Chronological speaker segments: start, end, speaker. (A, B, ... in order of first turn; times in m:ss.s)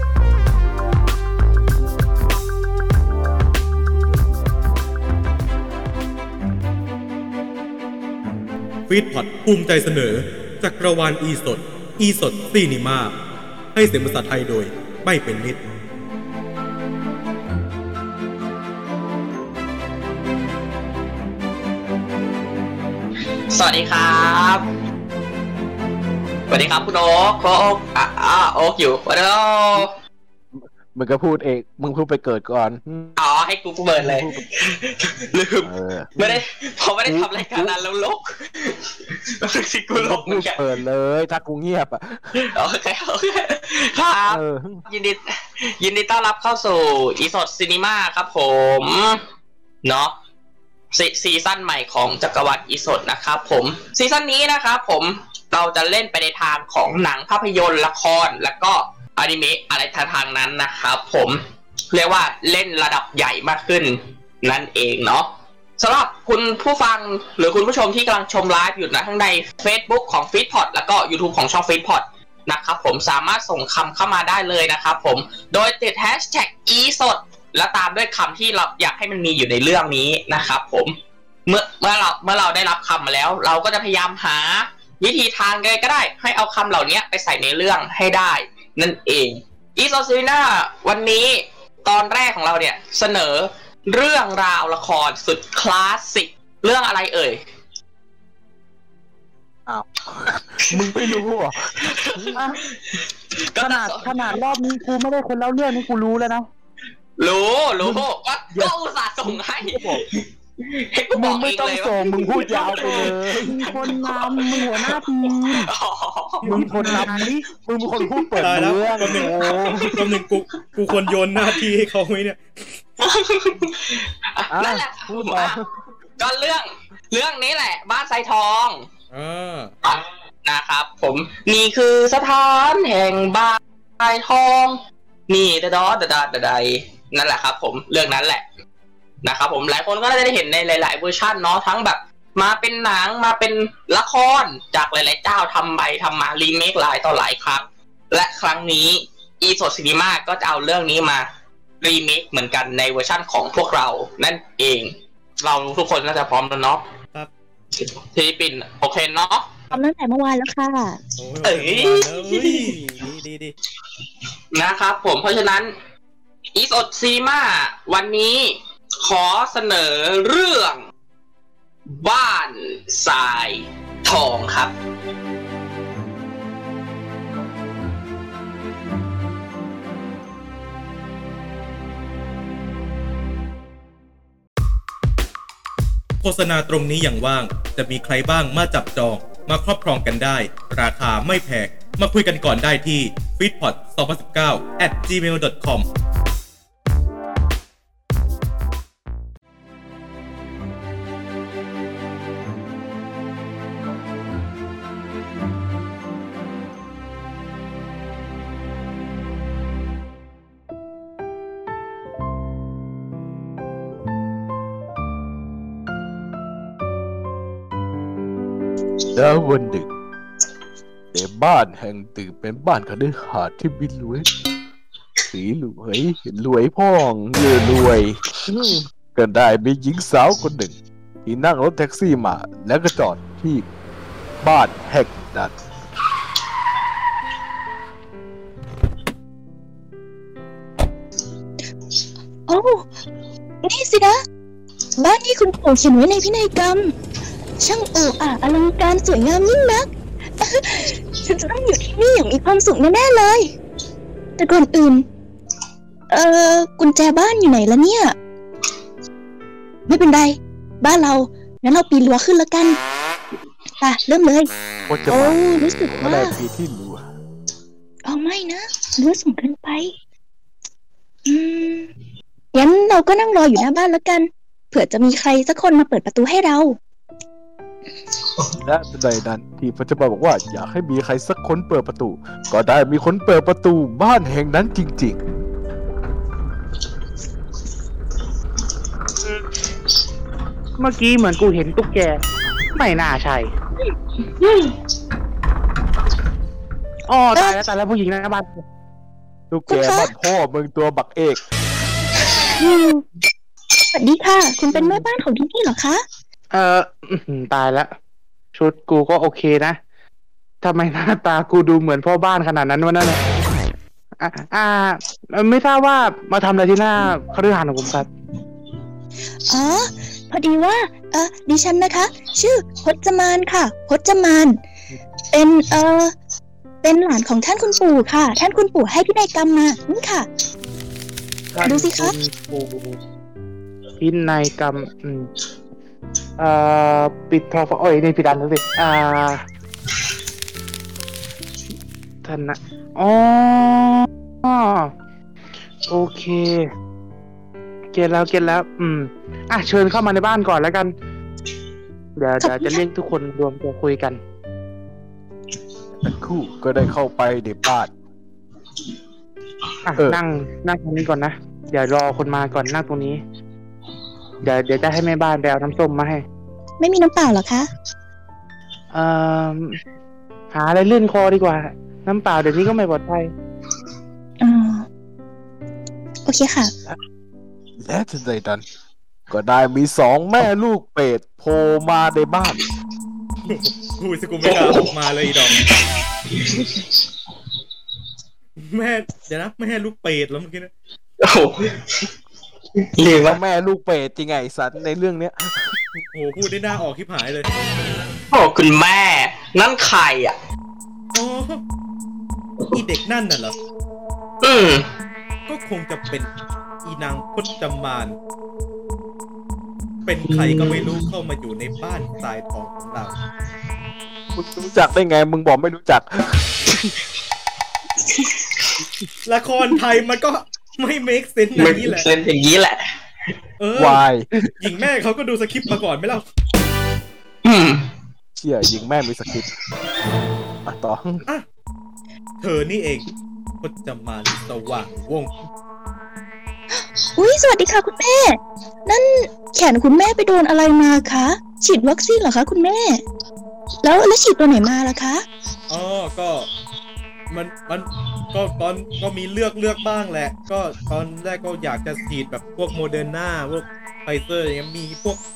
0:08.9-0:13.2 A
0:13.7-0:15.6 A
0:23.5-0:24.7 B
0:26.5-0:29.9 B
0:30.6-0:33.1 C
0:33.2-0:40.7 B
0:34.0-0:34.4 C
0:35.6-0:36.4 C
0:37.0-0:37.8 C
0:39.9-0:42.5 C
0:42.3-0:49.2 B
0:44.2-0:44.8 C
0:49.8-0:50.1 B
0:50.9-1:37.4 B
1:39.7-1:42.4 C
1:40.7-1:41.1 B
1:41.8-1:44.4 B
1:43.6-1:46.5 D
1:47.2-1:57.0 B
1:47.8-1:48.7 C
1:49.2-1:50.0 C
1:51.1-1:55.7 D
1:52.0-1:53.8 C
1:56.4-1:57.4 D
1:56.4-2:00.0 C
1:58.2-1:59.9 D
1:58.4-1:59.3 A
1:59.1-2:00.3 B
1:59.9-2:02.8 A
2:03.0-2:05.6 B
2:04.5-2:05.7 C
2:06.2-2:08.9 B
2:09.1-2:09.7 A
2:09.8-2:18.4 B
2:19.2-2:31.3 B
2:31.8-2:36.9 B
2:37.8-2:39.5 B
2:39.7-2:41.0 E
2:41.2-2:43.5 A
2:41.4-2:42.8 B
2:44.5-2:45.7 B
2:46.5-2:50.8 B
2:51.9-2:54.7 B
3:06.2-3:15.8 A
3:39.1-3:39.9 C
3:41.1-3:44.3 C
3:45.3-3:50.7 C
3:51.2-3:53.6 C
3:54.4-3:55.5 C
4:02.5-4:02.9 E
4:03.6-4:04.2 E
4:05.0-4:06.9 E
4:07.6-4:13.5 E
4:14.4-4:15.1 E
4:16.1-4:18.1 E
4:19.9-4:22.8 E
4:23.8-4:24.5 E
4:24.9-4:25.4 C
4:25.1-4:26.3 E
4:26.0-4:27.0 C
4:28.0-4:29.9 E
4:31.2-4:31.9 E
4:32.5-4:36.8 E
4:38.6-4:45.2 C
4:50.8-4:52.2 D
4:52.7-4:53.5 D
4:54.4-4:54.7 E
4:57.1-4:58.6 D
4:59.5-5:01.4 C
4:59.7-5:00.1 E
5:02.6-5:03.0 E
5:03.9-5:06.0 E
5:04.7-5:05.0 D
5:06.5-5:07.9 D
5:08.5-5:09.8 D
5:10.6-5:13.2 D
5:14.2-5:18.1 D
5:19.5-5:24.6 E
5:25.3-5:26.1 E
5:26.8-5:30.3 E
5:31.5-5:33.0 D
5:31.6-5:32.1 E
5:34.0-5:35.3 D
5:36.4-5:39.4 D
5:42.2-5:44.9 D
5:45.9-5:46.6 D
5:47.9-5:50.9 D
5:52.2-5:54.2 D
5:52.4-5:52.8 E
5:56.0-5:57.9 C
5:59.8-6:03.2 D
6:04.4-6:06.2 D
6:06.8-6:07.7 E
6:08.9-6:09.7 D
6:10.5-6:13.3 D
6:14.4-6:14.8 E
6:16.2-6:16.7 E
6:17.8-6:18.6 C
6:19.3-6:22.6 C
6:23.4-6:25.6 A
6:24.4-6:24.9 B
6:25.5-6:26.9 B
6:28.6-6:30.7 A
6:31.2-6:32.1 B
6:32.8-6:33.4 B
6:33.1-6:36.0 C
6:36.1-6:37.5 A
6:38.3-6:40.4 B
6:41.1-6:41.6 A
6:42.7-6:43.5 A
6:44.4-6:44.8 B
6:45.5-6:46.3 A
6:46.8-6:48.2 A
6:50.0-6:53.1 A
6:50.3-6:51.0 B
6:54.4-6:56.4 C
6:58.0-6:58.7 B
6:59.2-7:02.1 A
7:01.6-7:02.9 B
7:03.6-7:04.0 A
7:03.8-7:04.4 C
7:04.6-7:06.3 A
7:07.4-7:07.9 B
7:08.4-7:09.5 C
7:10.6-7:11.2 C
7:12.4-7:13.1 A
7:13.6-7:15.3 A
7:17.1-7:23.0 E
7:23.8-7:25.2 E
7:25.7-7:26.5 A
7:27.3-7:35.2 A